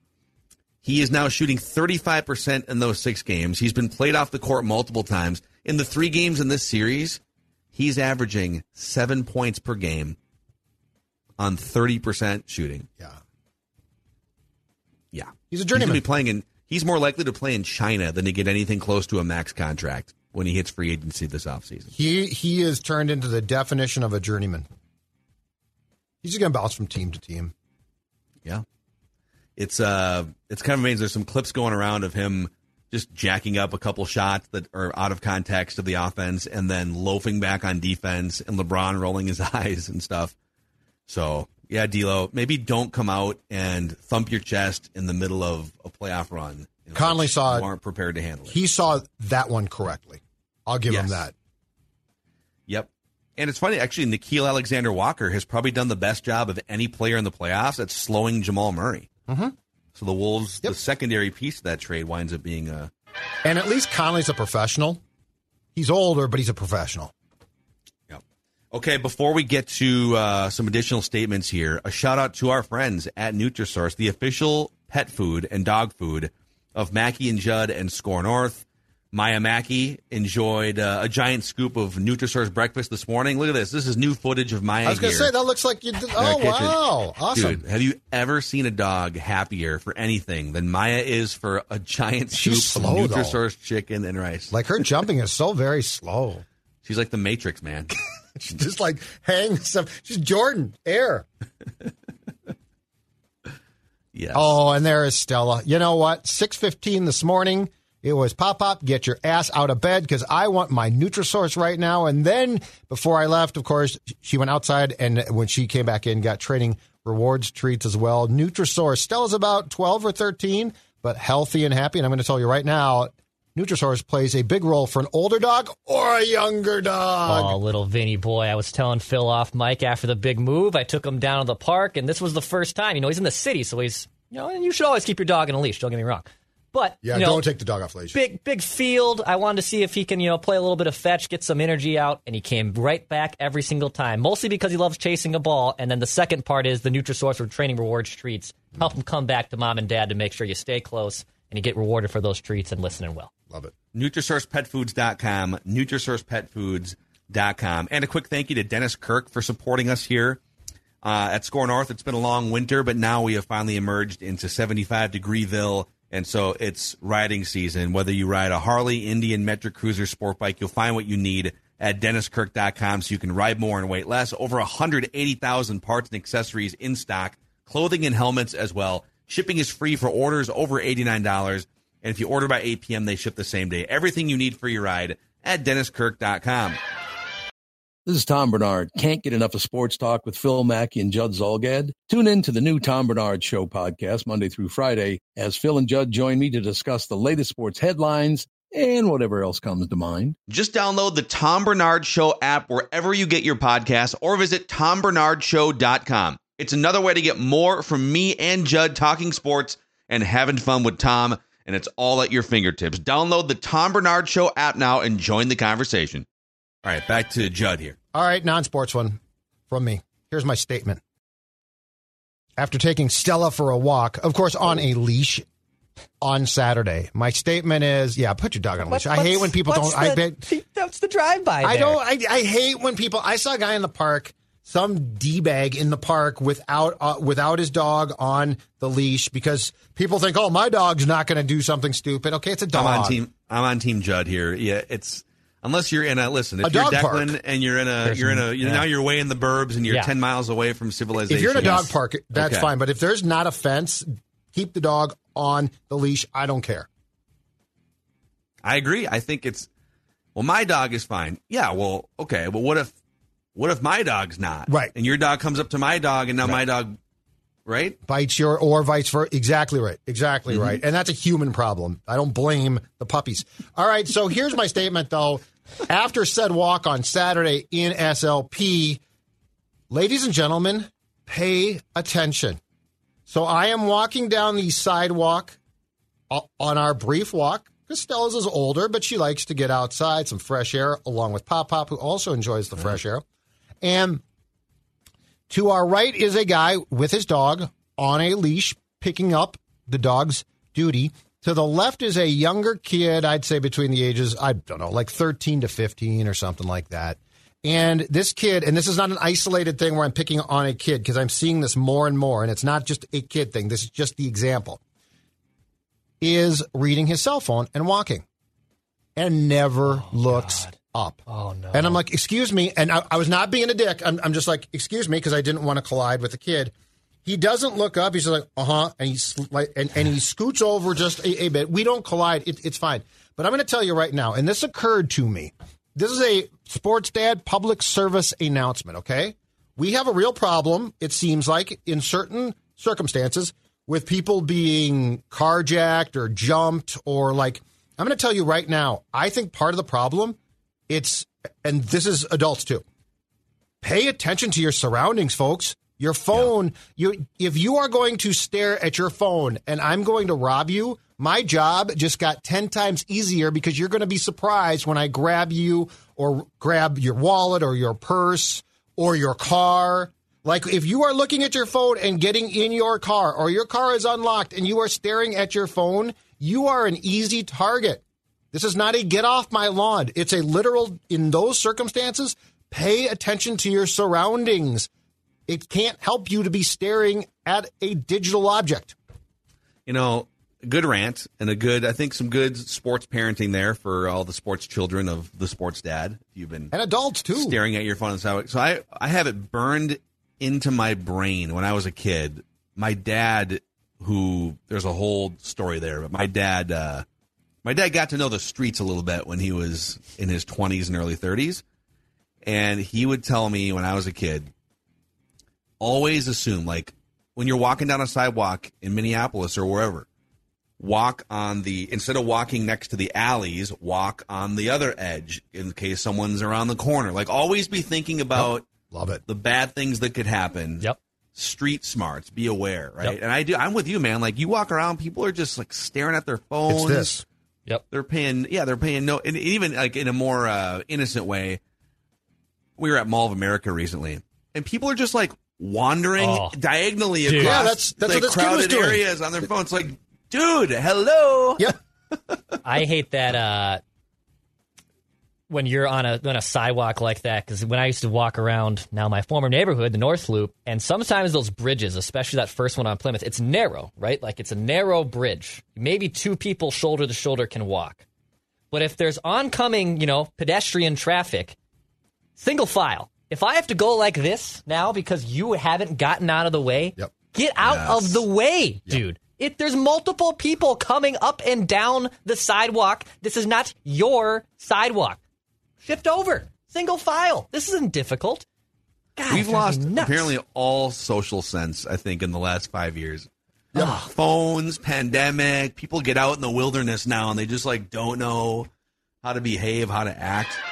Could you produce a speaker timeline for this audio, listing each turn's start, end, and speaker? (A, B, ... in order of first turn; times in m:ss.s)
0:00.8-0:07.2 A
0:07.7-0:10.2 A
0:11.4-0:12.9 A
0:15.1-0:21.9 A
0:15.5-0:16.0 B
0:21.9-0:24.7 B
0:26.2-0:27.5 B
0:29.6-0:40.4 A
0:41.1-0:48.6 A
0:47.0-0:47.7 B
0:48.5-0:51.3 B
0:50.9-0:51.3 A
0:52.7-0:59.1 A
0:59.3-0:59.6 B
1:00.0-1:02.9 A
1:03.4-1:05.0 B
1:05.8-1:07.1 B
1:08.1-1:25.3 A
1:24.8-1:27.6 B
1:26.2-1:34.5 A
1:32.3-1:33.4 B
1:34.5-1:36.4 B
1:36.8-1:38.0 A
1:38.4-1:41.3 B
1:44.1-1:44.5 A
1:44.3-2:07.6 B
2:07.3-2:17.4 C
2:17.0-2:18.2 B
2:18.1-2:33.3 C
2:33.9-2:40.4 A
2:41.0-3:06.8 A
3:08.1-3:20.4 D
3:20.5-3:36.3 A
3:36.8-3:38.0 A
3:38.1-3:41.0 B
3:42.6-3:45.4 B
3:46.2-3:50.4 B
3:48.9-3:52.0 C
3:51.6-4:03.2 B
4:02.7-4:12.7 A
4:06.6-4:07.4 B
4:08.0-4:08.8 C
4:11.2-4:16.9 B
4:11.6-4:11.9 C
4:18.6-4:19.7 A
4:20.4-4:22.9 A
4:23.6-4:27.0 A
4:24.7-4:24.9 B
4:27.7-4:28.0 A
4:28.1-4:39.0 B
4:39.9-4:42.6 B
4:43.3-4:45.6 B
4:46.3-4:53.2 B
4:53.8-4:54.2 B
4:55.5-5:14.8 B
5:16.2-5:18.2 B
5:19.2-5:21.2 B
5:19.9-5:20.8 C
5:21.3-5:22.0 C
5:21.7-5:26.7 B
5:27.2-5:50.4 B
5:50.9-5:52.8 B
5:53.8-6:24.9 B
6:25.5-6:29.0 B
6:29.9-6:36.7 A
6:36.7-6:37.6 B
6:37.3-6:47.0 A
6:47.6-6:51.6 A
6:52.4-6:54.5 A
6:55.8-7:00.1 A
7:00.8-7:08.7 A
7:08.4-7:09.2 B
7:09.3-7:17.2 A
7:16.7-7:17.2 B
7:17.9-7:21.6 A
7:22.8-7:31.8 A
7:26.2-7:26.6 C
7:27.2-7:27.7 C
7:27.4-7:29.0 B
7:32.6-7:33.8 C
7:35.5-7:48.0 C
7:48.7-7:51.6 C
7:52.4-8:05.2 C
7:57.6-7:58.2 A
8:05.8-8:08.5 C
8:09.2-8:10.3 C
8:09.3-8:13.3 A
8:13.8-8:14.1 C
8:13.8-8:18.7 A
8:19.2-8:20.6 A